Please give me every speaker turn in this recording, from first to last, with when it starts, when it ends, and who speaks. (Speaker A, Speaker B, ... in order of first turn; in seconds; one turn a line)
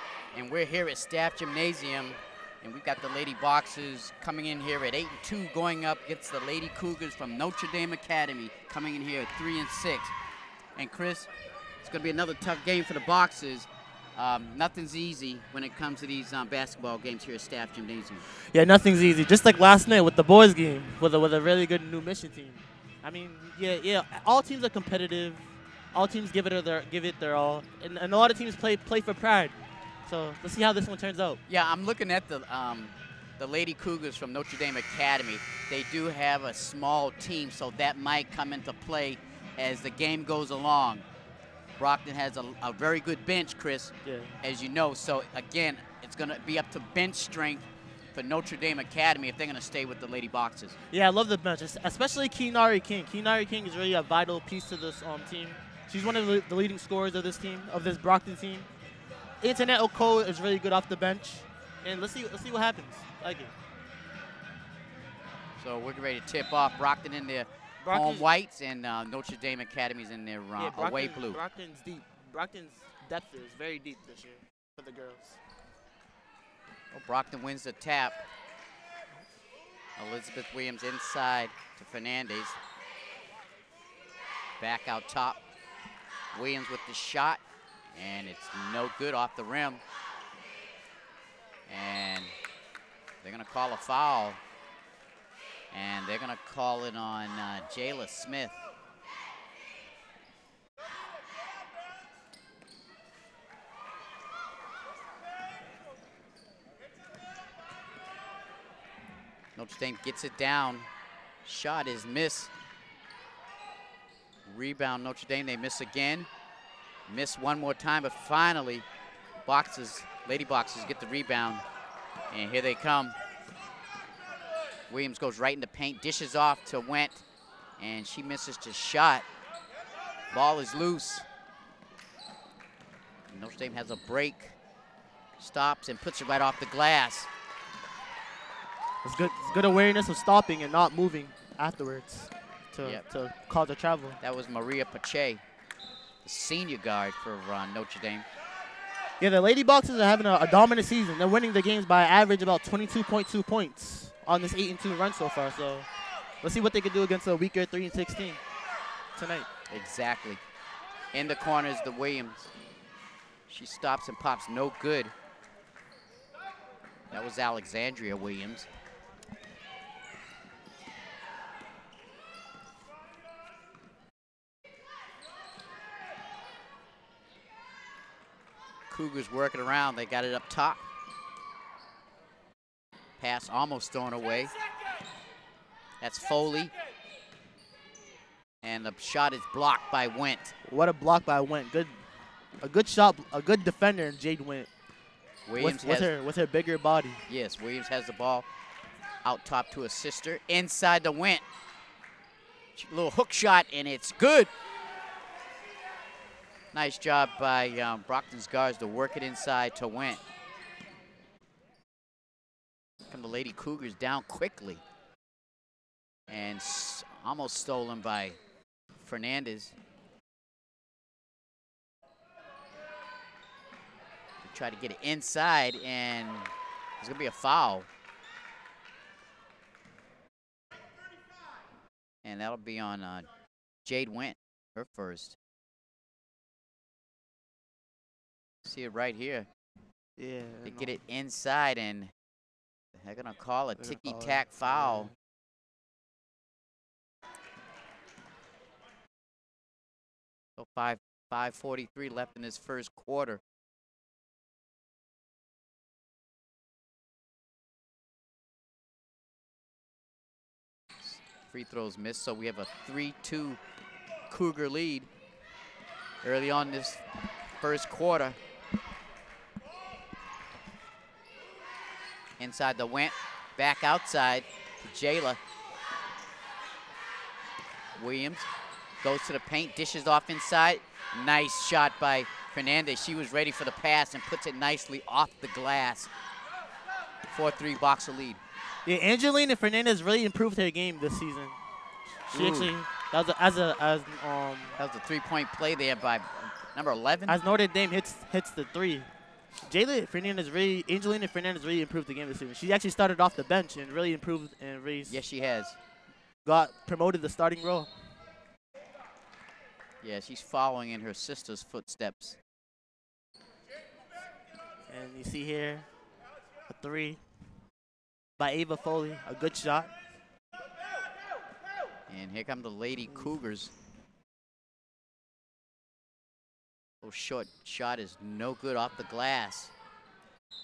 Speaker A: 0.3-10.1
Speaker A: 10.8-11.3
Speaker A: 11.8-18.3
Speaker B: 18.5-31.4
Speaker A: 31.5-41.0
Speaker A: 41.8-50.8
Speaker B: 44.0-44.4
Speaker B: 50.9-58.7
Speaker B: 59.4-63.5
Speaker A: 65.6-71.4
Speaker B: 67.8-68.3
Speaker B: 70.6-75.4
Speaker A: 76.9-78.2
Speaker A: 80.0-82.6
Speaker A: 84.6-85.4
Speaker A: 86.3-87.4
Speaker A: 87.9-89.8
Speaker A: 91.7-92.3
Speaker A: 93.2-94.4
Speaker A: 95.7-98.6
Speaker A: 109.6-110.9
Speaker A: 111.4-112.5
Speaker A: 114.5-116.3
Speaker A: 117.1-118.8
Speaker A: 119.5-121.7
Speaker A: 122.3-123.2
Speaker A: 124.9-127.2
Speaker A: 127.8-129.3
Speaker A: 130.3-131.3
Speaker A: 133.3-134.6
Speaker A: 135.4-137.3
Speaker B: 139.0-144.2
Speaker A: 144.2-145.4
Speaker A: 146.2-148.3
Speaker B: 149.2-155.9
Speaker B: 156.4-158.4
Speaker B: 159.2-159.5
Speaker A: 159.7-160.4
Speaker A: 161.1-162.5
Speaker A: 163.5-165.1
Speaker A: 167.1-168.7
Speaker A: 178.9-180.8
Speaker A: 183.2-184.5
Speaker A: 186.0-186.7
Speaker A: 188.6-190.5
Speaker B: 190.7-192.0
Speaker B: 192.6-194.7
Speaker A: 195.5-196.1
Speaker B: 195.6-197.2
Speaker A: 197.3-198.5
Speaker A: 199.2-201.4
Speaker A: 202.8-204.5
Speaker A: 206.7-210.2
Speaker A: 213.1-214.8
Speaker A: 216.3-218.4
Speaker A: 219.0-219.8
Speaker A: 224.4-227.9
Speaker A: 232.2-233.3
Speaker A: 233.8-235.4
Speaker A: 238.6-239.5
Speaker B: 240.2-240.9
Speaker A: 240.6-242.1
Speaker A: 242.9-245.1
Speaker B: 243.8-245.1
Speaker A: 250.6-253.4
Speaker A: 261.0-263.6
Speaker A: 264.3-265.1
Speaker A: 266.2-267.0
Speaker A: 267.6-268.4
Speaker A: 272.4-275.4
Speaker A: 278.0-278.5
Speaker A: 279.0-286.1
Speaker A: 287.3-288.4
Speaker B: 288.9-291.6
Speaker B: 292.3-294.8
Speaker A: 292.3-292.7
Speaker A: 294.8-297.4
Speaker B: 297.3-299.1
Speaker B: 299.6-305.2
Speaker A: 305.1-305.8
Speaker B: 306.4-307.9
Speaker A: 310.0-312.4
Speaker B: 314.9-315.9
Speaker B: 316.7-317.2
Speaker B: 318.4-319.9
Speaker A: 322.1-323.7
Speaker A: 327.0-329.7